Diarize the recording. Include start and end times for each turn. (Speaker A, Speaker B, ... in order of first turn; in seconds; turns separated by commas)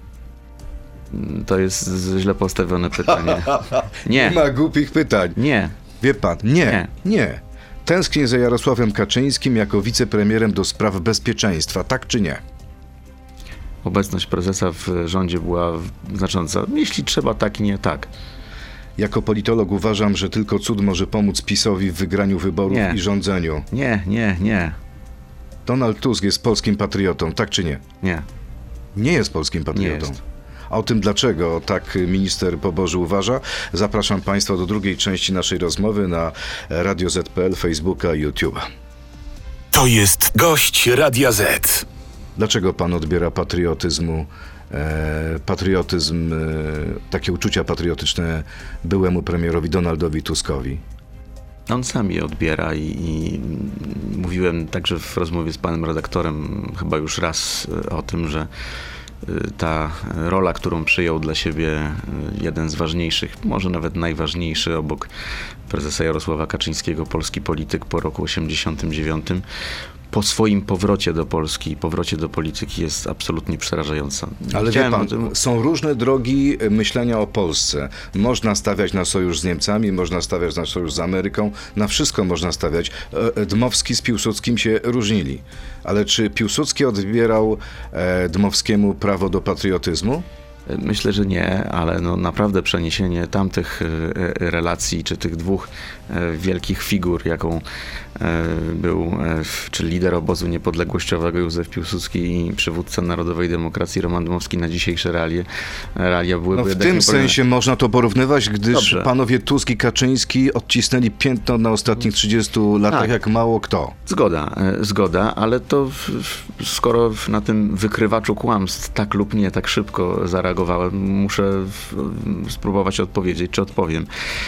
Speaker A: 1.1-4.4, Speaker B: 3.1-5.4, Speaker A: 5.4-5.8, Speaker B: 6.0-12.4, Speaker A: 13.8-18.1, Speaker B: 19.0-23.7, Speaker A: 22.7-23.0, Speaker A: 23.7-24.8, Speaker B: 25.6-27.8, Speaker B: 28.9-38.6, Speaker A: 29.7-30.1, Speaker C: 39.7-41.9, Speaker B: 42.4-50.8, Speaker A: 51.7-58.5, Speaker A: 59.2-65.1, Speaker A: 65.7-69.4, Speaker A: 70.1-75.3, Speaker B: 74.5-90.3, Speaker A: 90.7-97.6, Speaker A: 98.2-107.4, Speaker B: 106.5-113.9, Speaker A: 108.7-109.1, Speaker A: 114.0-124.1